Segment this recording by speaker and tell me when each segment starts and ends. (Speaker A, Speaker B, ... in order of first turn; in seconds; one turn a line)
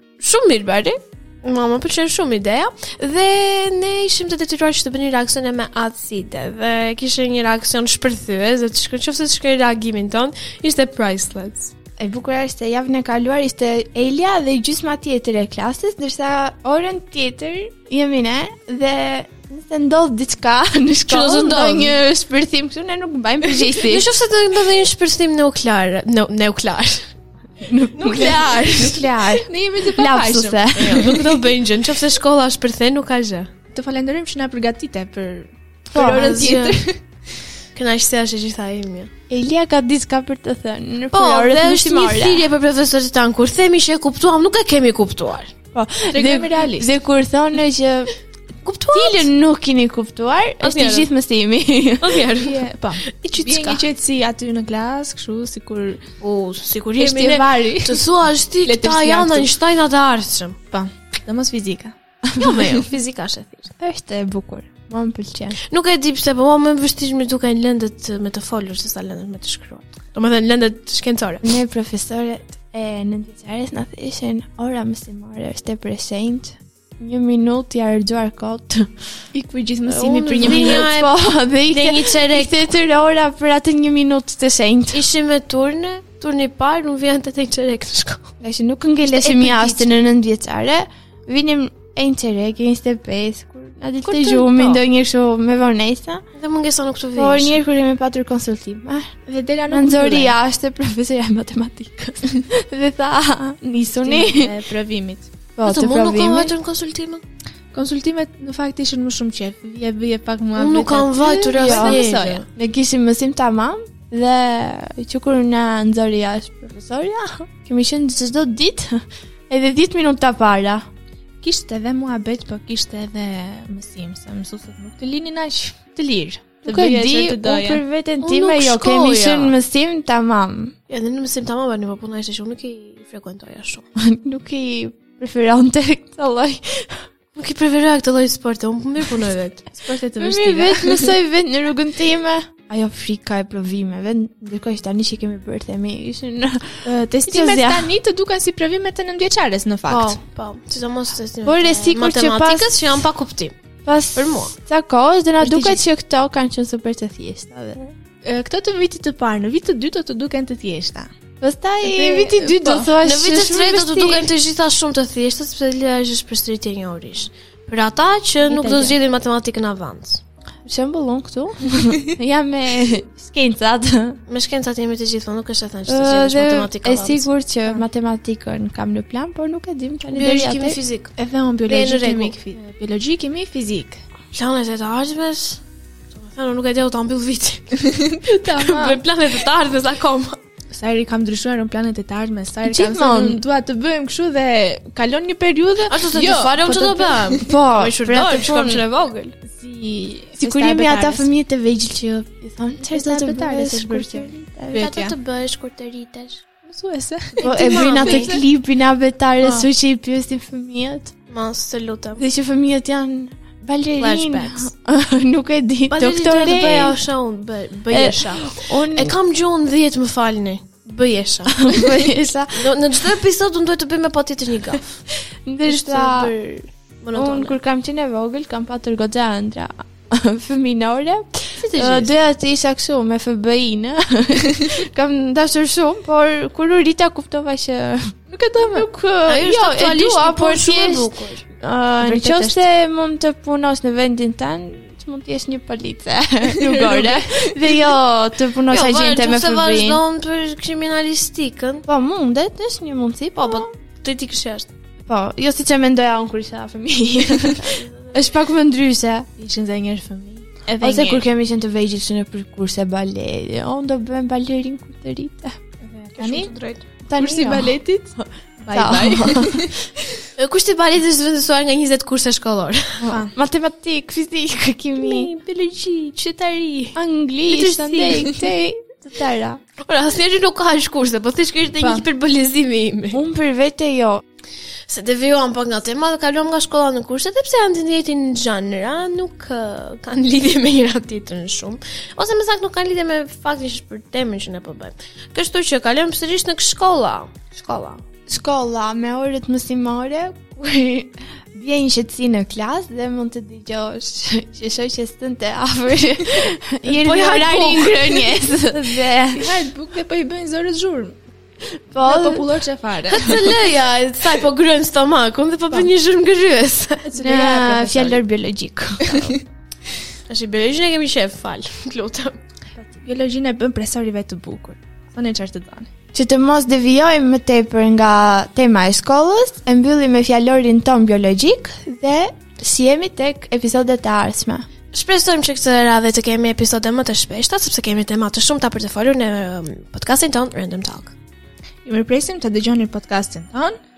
Speaker A: 0.2-11.7
Speaker B: 12.0-24.1
Speaker A: 21.1-21.9
Speaker A: 23.8-27.0
Speaker B: 27.6-31.3
Speaker A: 28.0-29.0
Speaker C: 28.0-31.2
Speaker A: 30.7-33.5
Speaker C: 33.7-37.0
Speaker B: 35.9-36.4
Speaker A: 36.0-36.8
Speaker A: 37.7-39.1
Speaker B: 39.3-42.5
Speaker A: 41.1-45.5
Speaker B: 45.7-48.1
Speaker C: 46.1-46.9
Speaker A: 48.6-49.3
Speaker B: 48.9-52.2
Speaker A: 50.6-51.1
Speaker A: 52.0-52.7
Speaker C: 52.4-56.0
Speaker A: 53.3-53.8
Speaker A: 56.2-60.6
Speaker C: 57.0-58.0
Speaker C: 58.6-59.5
Speaker C: 60.7-61.9
Speaker A: 62.4-63.7
Speaker B: 63.8-65.5
Speaker A: 65.7-71.5
Speaker B: 71.4-78.9
Speaker C: 79.3-80.9
Speaker A: 79.9-82.7
Speaker B: 80.4-85.0
Speaker A: 84.9-88.2
Speaker B: 88.4-96.2
Speaker A: 89.0-89.9
Speaker A: 94.0-94.8
Speaker A: 96.3-97.6
Speaker B: 97.2-99.1
Speaker C: 99.3-100.3
Speaker B: 99.7-104.5
Speaker C: 103.9-105.3
Speaker B: 105.5-106.5
Speaker A: 105.6-107.2
Speaker C: 107.7-112.4
Speaker A: 110.5-112.5
Speaker B: 111.5-120.8
Speaker C: 121.4-127.8
Speaker B: 126.7-130.7
Speaker A: 128.2-129.6
Speaker A: 130.9-133.8
Speaker B: 133.9-137.0
Speaker A: 137.3-139.7
Speaker C: 139.8-141.2
Speaker B: 140.2-147.9
Speaker C: 146.8-150.2
Speaker A: 149.9-153.5
Speaker B: 151.4-152.9
Speaker B: 153.8-157.9
Speaker A: 154.1-154.5
Speaker C: 155.4-155.8
Speaker C: 158.2-161.1
Speaker B: 161.4-164.3
Speaker C: 161.8-162.9
Speaker A: 162.7-170.2
Speaker B: 168.5-168.9
Speaker B: 170.6-174.2
Speaker A: 174.3-177.3
Speaker B: 175.9-180.8
Speaker A: 180.1-181.1
Speaker C: 181.2-184.0
Speaker A: 181.7-182.3
Speaker A: 184.3-187.7
Speaker C: 187.8-189.0
Speaker A: 188.4-190.4
Speaker C: 190.7-197.5
Speaker B: 192.6-193.4
Speaker A: 195.9-199.1
Speaker B: 196.8-199.3
Speaker C: 199.4-201.3
Speaker B: 200.4-204.8
Speaker C: 202.9-205.1
Speaker A: 204.7-206.4
Speaker C: 206.7-208.3
Speaker A: 207.4-208.4
Speaker B: 207.4-211.1
Speaker C: 209.4-209.7
Speaker A: 211.3-212.2
Speaker B: 212.2-217.0
Speaker A: 214.0-214.7
Speaker A: 215.9-222.0
Speaker B: 217.9-219.2
Speaker B: 221.5-222.7
Speaker A: 222.5-225.0
Speaker B: 225.4-226.6
Speaker A: 225.6-226.3
Speaker A: 227.0-227.6
Speaker B: 227.1-241.1
Speaker A: 231.6-232.1
Speaker C: 238.3-238.9
Speaker A: 239.2-241.4
Speaker B: 241.6-250.0
Speaker C: 242.0-242.6
Speaker C: 246.6-247.5
Speaker A: 248.7-251.8
Speaker B: 251.9-253.7
Speaker A: 253.4-254.7
Speaker B: 255.1-259.3
Speaker A: 257.6-258.2
Speaker C: 259.4-261.2
Speaker A: 260.7-261.1
Speaker B: 260.8-265.6
Speaker C: 265.8-266.5
Speaker A: 266.1-266.8
Speaker B: 267.1-267.8
Speaker C: 267.2-269.8
Speaker B: 268.7-269.7
Speaker A: 270.4-273.1
Speaker C: 273.0-273.3
Speaker B: 273.0-275.3
Speaker A: 275.0-276.9
Speaker B: 276.9-279.6
Speaker C: 277.5-278.5
Speaker A: 277.5-278.0
Speaker A: 279.8-283.2
Speaker B: 283.1-284.2
Speaker A: 284.9-298.0
Speaker B: 298.3-309.5
Speaker A: 306.9-308.2
Speaker C: 309.3-311.2
Speaker B: 311.7-312.6
Speaker C: 312.0-313.5
Speaker A: 313.1-317.1
Speaker C: 317.0-318.2
Speaker B: 317.1-319.4
Speaker C: 319.1-319.4
Speaker A: 320.3-322.4
Speaker C: 323.0-325.9
Speaker B: 326.1-334.6
Speaker A: 334.9-341.1
Speaker C: 341.8-343.7